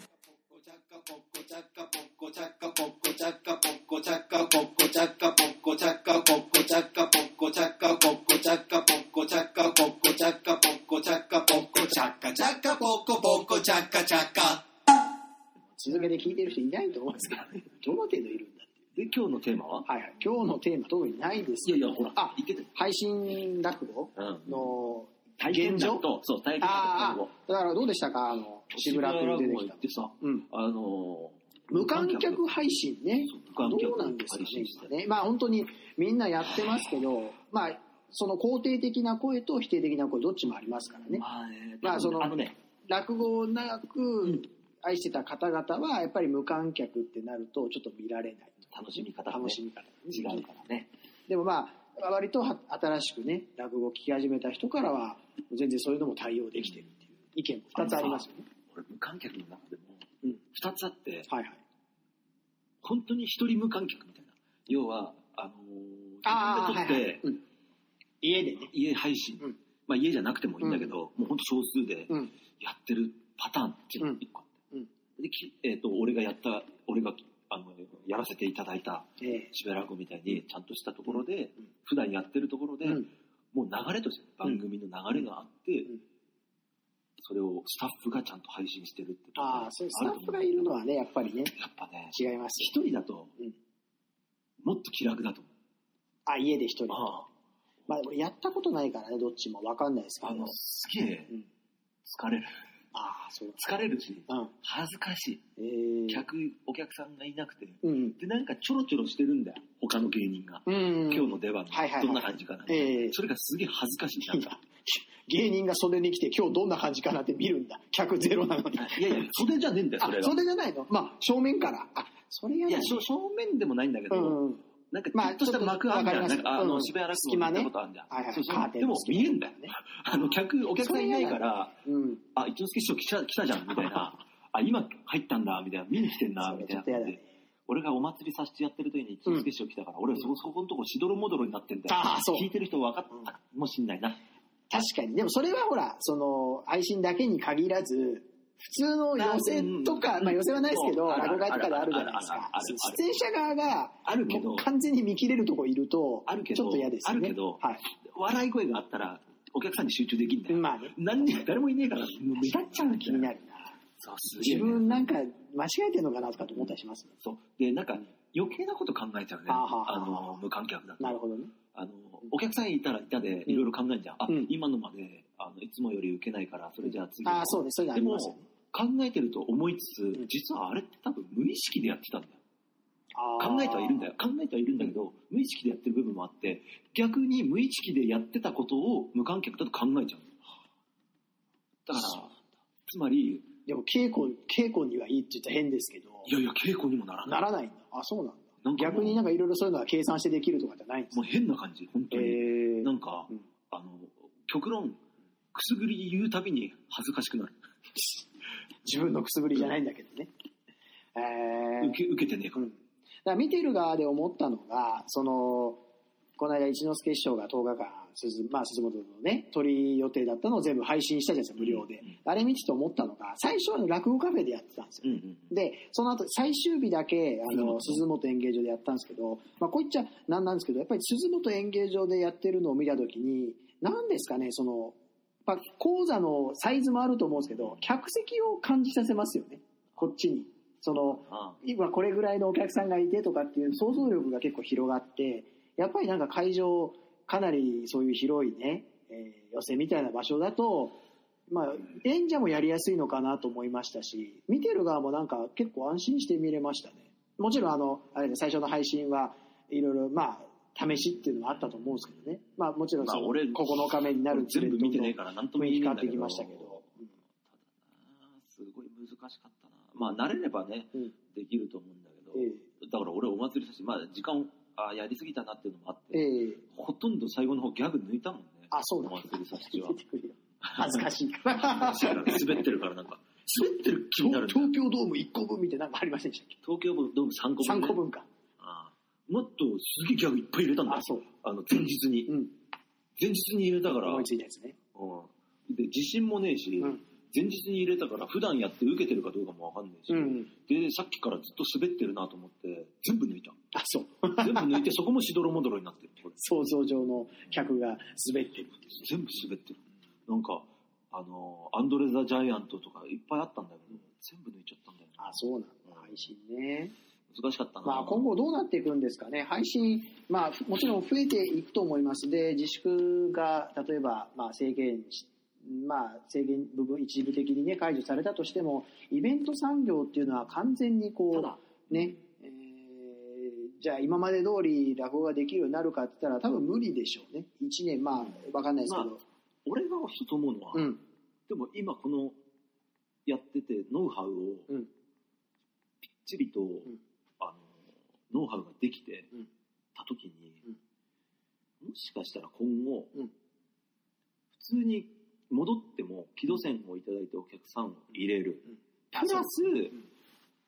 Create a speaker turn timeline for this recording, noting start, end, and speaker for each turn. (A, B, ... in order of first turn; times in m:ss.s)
0:00.3-0:14.6 A
0:15.8-0:18.8 B
0:19.0-0:19.9 C
0:19.9-0:26.0 B
0:21.6-0:22.7 C
0:24.2-0:24.6 C
0:25.4-0:27.3 C
0:26.6-0:30.5 B
0:28.7-0:32.4 C
0:31.7-0:41.2 B
0:33.2-0:34.9 C
0:41.0-0:42.6 C
0:41.8-0:42.4 B
0:42.9-0:48.7 B
0:48.7-0:50.9 C
0:49.3-0:50.5 B
0:51.3-0:58.5 B
0:57.8-1:01.3 C
1:01.3-1:01.6 B
1:02.8-1:07.2 C
1:06.2-1:07.4 B
1:08.2-1:08.7 B
1:08.7-1:14.5 C
1:10.6-1:10.9 B
1:15.2-1:25.9 C
1:19.2-1:19.5 B
1:27.2-1:30.7 C
1:29.4-1:31.6 B
1:31.6-1:33.3 C
1:32.1-1:32.8 B
1:34.6-1:35.5 C
1:36.3-1:37.2 B
1:36.9-1:37.3 C
1:37.9-1:40.6 B
1:40.2-1:41.3 C
1:42.0-1:42.6 C
1:42.9-1:44.5 B
1:43.6-1:45.4 C
1:45.6-1:46.3 B
1:46.1-1:54.6 C
1:47.8-1:48.2 B
1:50.7-1:53.2 B
1:54.3-1:59.4 B
1:58.7-2:00.4 C
2:00.0-2:03.1 B
2:02.7-2:04.4 C
2:04.1-2:04.6 B
2:04.9-2:11.8 C
2:05.1-2:09.8 B
2:10.8-2:12.2 B
2:12.4-2:24.2 C
2:16.4-2:17.3 B
2:21.9-2:22.5 B
2:24.7-2:37.8 B
2:29.2-2:33.0 C
2:34.0-2:34.7 C
2:36.3-2:43.3 C
2:40.5-2:41.0 B
2:42.4-2:43.8 B
2:44.0-2:45.1 C
2:44.4-2:47.1 B
2:47.2-2:51.2 C
2:49.5-2:50.4 B
2:51.0-2:51.5 B
2:51.7-3:02.4 C
2:57.2-2:58.5 B
3:03.1-3:04.1 B
3:03.4-3:10.4 C
3:11.9-3:13.5 C
3:13.7-3:16.3 B
3:16.2-3:17.4 C
3:17.3-3:21.2 B
3:18.6-3:19.2 C
3:21.1-3:25.0 C
3:22.1-3:23.4 B
3:25.5-3:27.6 C
3:28.8-3:30.3 B
3:31.2-3:32.0 B
3:31.8-3:32.6 C
3:32.6-3:35.8 B
3:36.4-4:27.0 B
3:41.6-3:42.1 C
3:45.0-3:45.5 C
3:47.5-3:48.0 C
4:01.1-4:01.6 C
4:23.0-4:26.9 C
4:27.9-4:40.0 C
4:32.3-4:32.6 B
4:36.1-4:36.6 B
4:38.7-4:42.6 B
4:40.6-4:41.1 C
4:41.6-4:44.7 C
4:44.2-4:46.6 B
4:46.6-4:48.0 C
4:47.6-4:48.3 B
4:48.6-4:52.4 C
4:50.9-4:51.3 B
4:52.3-4:52.5 B
4:53.2-4:54.3 C
4:53.9-4:54.8 B
4:54.9-5:03.6 C
5:00.1-5:00.5 B
5:03.7-5:04.8 B
5:04.4-5:06.4 C
5:06.4-5:09.1 B
5:09.0-5:15.4 C
5:15.2-5:16.9 B
5:17.3-5:18.3 C
5:17.8-5:39.2 B
5:31.3-5:32.1 C
5:39.7-5:40.9 C
5:40.7-5:41.0 B
5:41.5-5:42.4 C
5:43.3-5:44.7 C
5:46.2-5:49.3 C
5:50.0-5:50.6 C
5:51.8-5:53.2 C
5:54.5-6:00.0 C
5:59.1-5:59.5 B